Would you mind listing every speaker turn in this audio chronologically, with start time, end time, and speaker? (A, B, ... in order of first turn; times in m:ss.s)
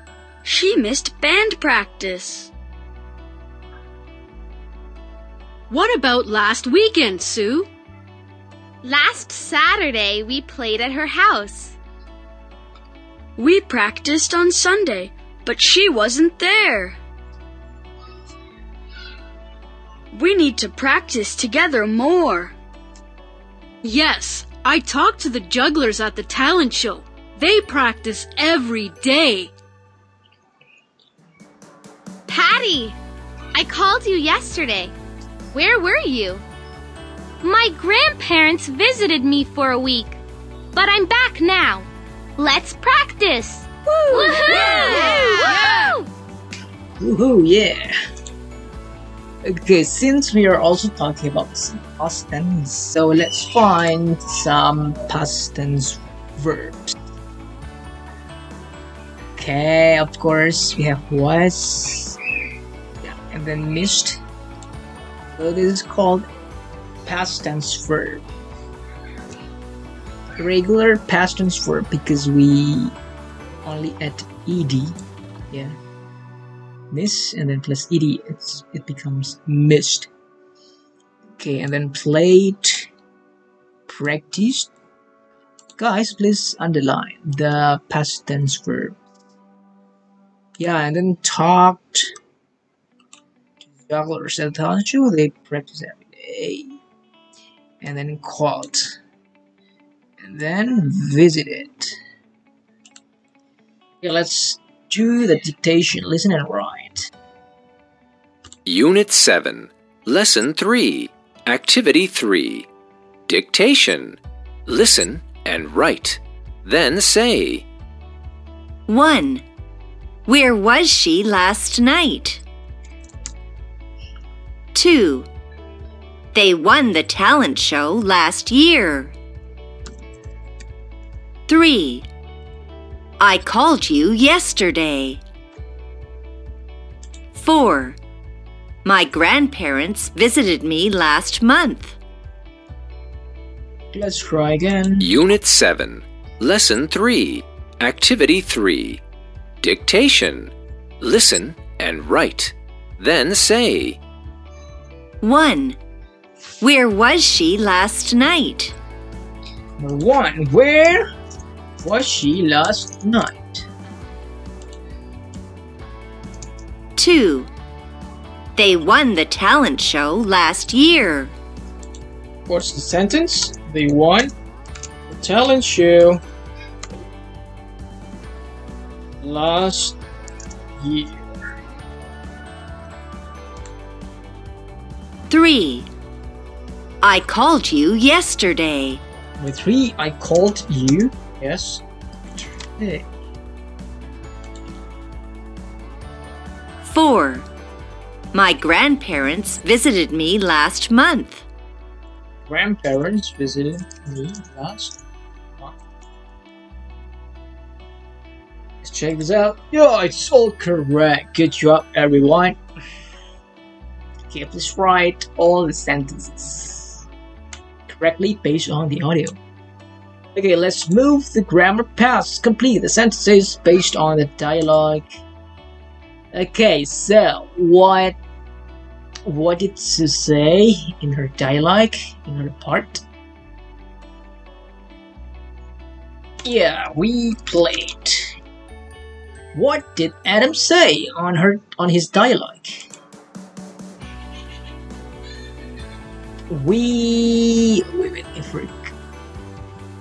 0:00.4-0:02.5 A
0:05.7-0:07.7 A
0:08.8-0:11.8 B
0:13.4-0:17.0 A
0:20.1-0:22.5 A
0:23.8-0:29.5 A
0:32.3-0:33.0 B
0:33.5-0:34.9 B
0:35.5-0:36.4 B
0:37.4-0:40.2 B
0:40.8-0:46.1 B
0:44.0-0:45.9 A
0:47.0-0:47.9 C
0:49.4-0:57.0 C
0:59.4-1:02.2 C
1:03.0-1:04.2 C
1:05.4-1:06.3 C
1:07.0-1:08.2 C
1:10.4-1:13.0 C
1:13.6-1:15.0 C
1:16.9-1:20.1 C
1:21.4-1:22.9 C
1:23.9-1:24.7 C
1:25.8-1:29.0 C
1:30.6-1:32.1 C
1:33.6-1:36.7 C
1:37.8-1:39.0 C
1:40.2-1:42.0 C
1:44.0-1:47.1 C
1:48.7-1:52.7 D
1:53.3-1:57.7 D
1:58.9-1:59.4 E
2:00.3-2:02.4 E
2:04.7-2:05.3 E
2:06.3-2:09.2 E
2:11.5-2:12.1 E
2:13.2-2:15.2 E
2:17.3-2:18.0 E
2:18.8-2:22.0 E
2:23.9-2:25.1 C
2:25.0-2:29.0 D
2:29.6-2:34.0 D
2:35.2-2:35.8 E
2:36.6-2:38.8 E
2:39.8-2:41.0 C
2:41.8-2:43.6 C
2:47.0-2:47.5 E
2:48.6-2:51.3 E
2:52.5-2:54.3 C
2:55.1-2:56.2 C
2:59.2-3:00.0 C
3:00.8-3:01.2 C
3:05.3-3:05.9 E
3:07.0-3:09.0 E
3:09.4-3:11.8 C
3:12.6-3:13.0 C
3:16.8-3:17.5 E
3:18.3-3:21.4 E
3:22.5-3:25.0 C
3:28.8-3:32.6 C
3:34.3-3:37.1 C
3:37.9-3:39.4 C
3:40.4-3:45.1 C
3:46.3-3:48.2 C
3:49.2-3:53.0 C
3:56.4-3:58.4 C
3:59.5-4:02.9 C
4:06.5-4:08.9 C